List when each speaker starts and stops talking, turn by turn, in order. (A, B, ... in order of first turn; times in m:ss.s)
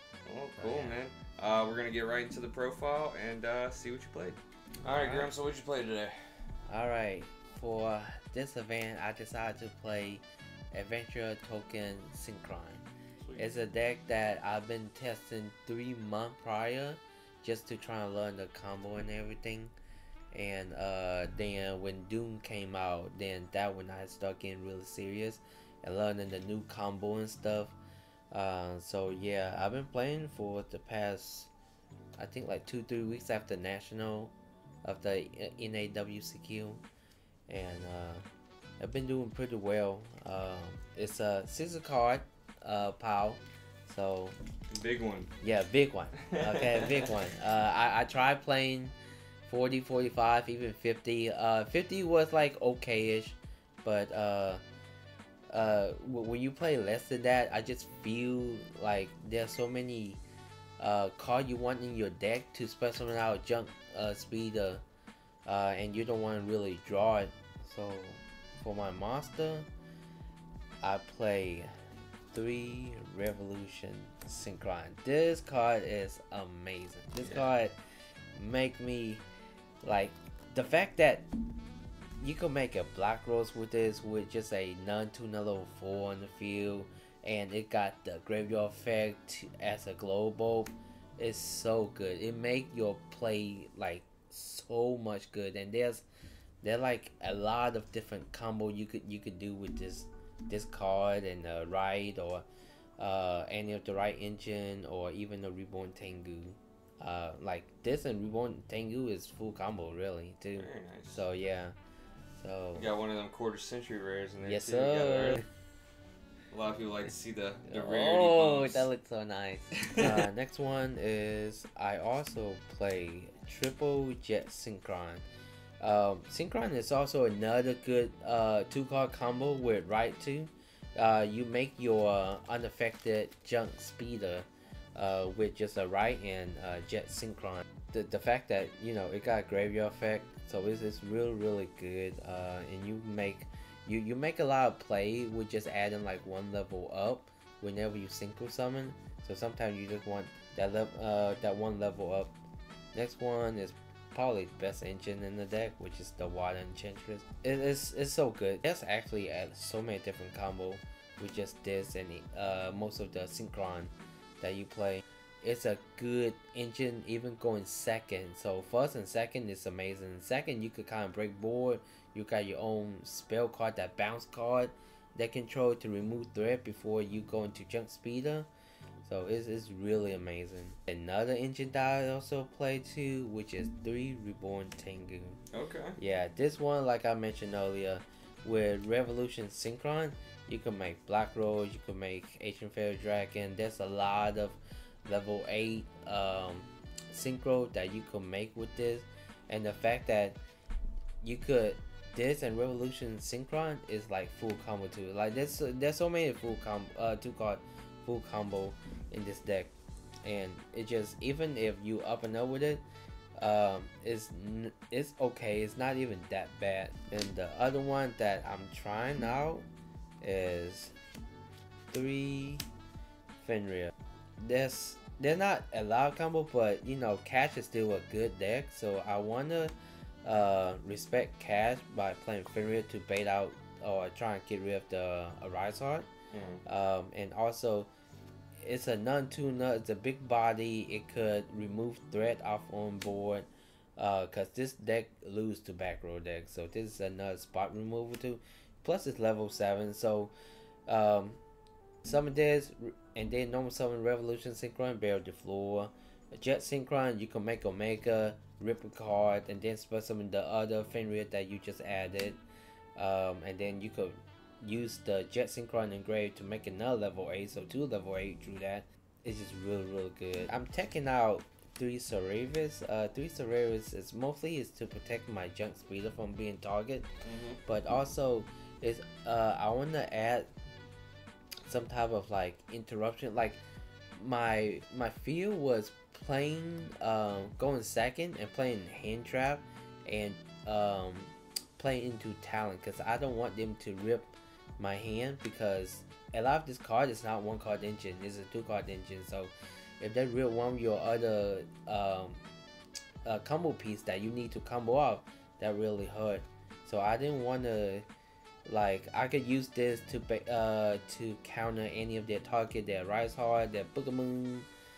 0:00.3-0:06.2 A
0:00.6-0:01.0 B
0:04.9-0:05.3 B
0:06.7-0:12.8 B
0:13.4-0:19.7 B
0:20.3-0:27.8 B
0:28.3-0:31.5 B
0:32.2-0:34.3 B
0:34.8-0:36.8 B
0:37.5-0:38.2 B
0:38.8-0:44.4 B
0:44.7-0:45.3 A
0:45.4-0:48.9 B
0:46.3-0:47.1 A
0:49.5-0:54.6 B
0:55.5-1:00.2 B
1:00.8-1:04.8 B
1:05.5-1:09.7 B
1:10.8-1:11.7 B
1:12.3-1:17.8 B
1:17.2-1:17.5 A
1:18.4-1:19.2 B
1:19.8-1:21.3 B
1:22.2-1:36.0 B
1:36.6-1:42.5 B
1:43.0-1:51.8 B
1:50.6-1:51.2 A
1:52.4-1:52.9 B
1:52.8-1:55.4 A
1:54.4-1:55.5 B
1:56.5-1:58.9 A
1:57.7-2:05.3 B
1:59.8-2:00.2 A
2:05.8-2:32.3 B
2:32.9-2:58.5 B
2:59.0-3:05.4 B
3:05.5-3:06.0 A
3:06.0-3:20.4 B
3:21.2-3:29.7 B
3:30.2-3:32.8 B
3:33.4-3:39.7 B
3:40.2-3:40.9 B
3:41.9-3:42.6 B
3:43.4-3:49.7 B
3:50.2-3:56.1 B
3:56.3-3:56.6 A
3:56.6-3:57.9 B
3:58.6-4:10.3 B
4:10.9-4:11.4 B
4:12.0-4:22.4 B
4:23.0-4:37.1 B
4:37.2-4:37.6 A
4:37.7-4:40.5 B
4:41.7-4:43.6 B
4:44.2-5:02.4 B
5:03.2-5:08.0 B
5:08.7-5:14.7 B